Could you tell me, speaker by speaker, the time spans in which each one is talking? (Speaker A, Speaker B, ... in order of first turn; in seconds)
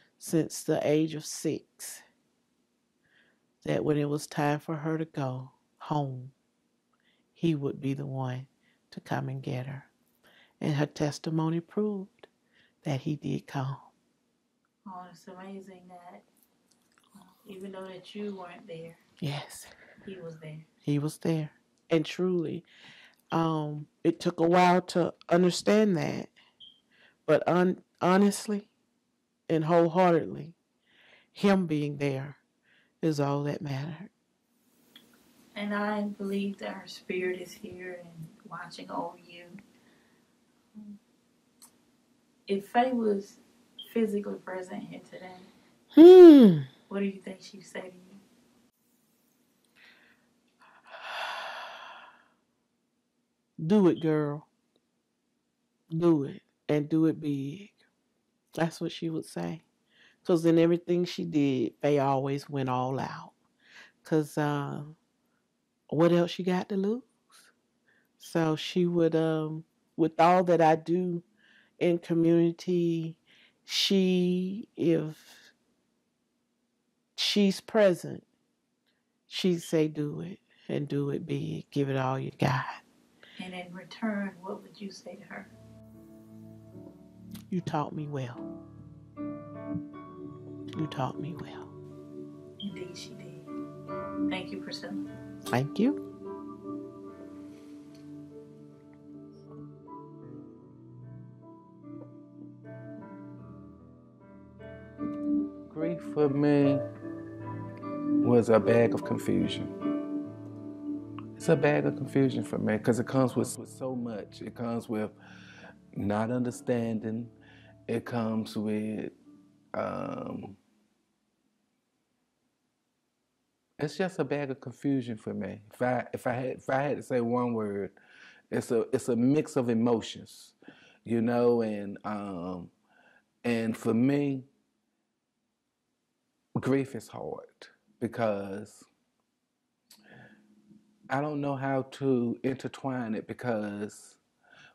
Speaker A: 0.2-2.0, 3.6-6.3, 7.4-9.9, 10.6-12.3, 12.8-13.9, 19.2-19.7, 20.9-22.6, 23.3-26.3, 27.3-28.7, 29.5-30.6, 31.3-32.4, 33.0-34.1, 46.0-46.7, 53.6-54.5, 55.9-57.8, 58.5-59.6, 60.2-63.3, 64.0-65.0, 65.9-67.5, 68.2-71.3, 71.8-75.5, 77.2-78.2, 79.3-82.8, 87.5-88.4, 90.8-91.7, 95.5-96.0
Speaker B: 14.8-16.2, 17.2-19.0, 20.0-20.7, 35.5-39.6, 42.5-45.5, 46.9-48.2, 83.4-85.5, 92.6-93.5, 94.3-95.1
Speaker C: 105.7-106.8, 108.2-109.7, 111.4-115.1, 116.0-117.3, 117.9-119.1, 119.7-120.6, 123.8-127.9, 128.5-130.6, 131.1-132.7, 133.4-134.5, 136.6-138.9, 141.1-144.2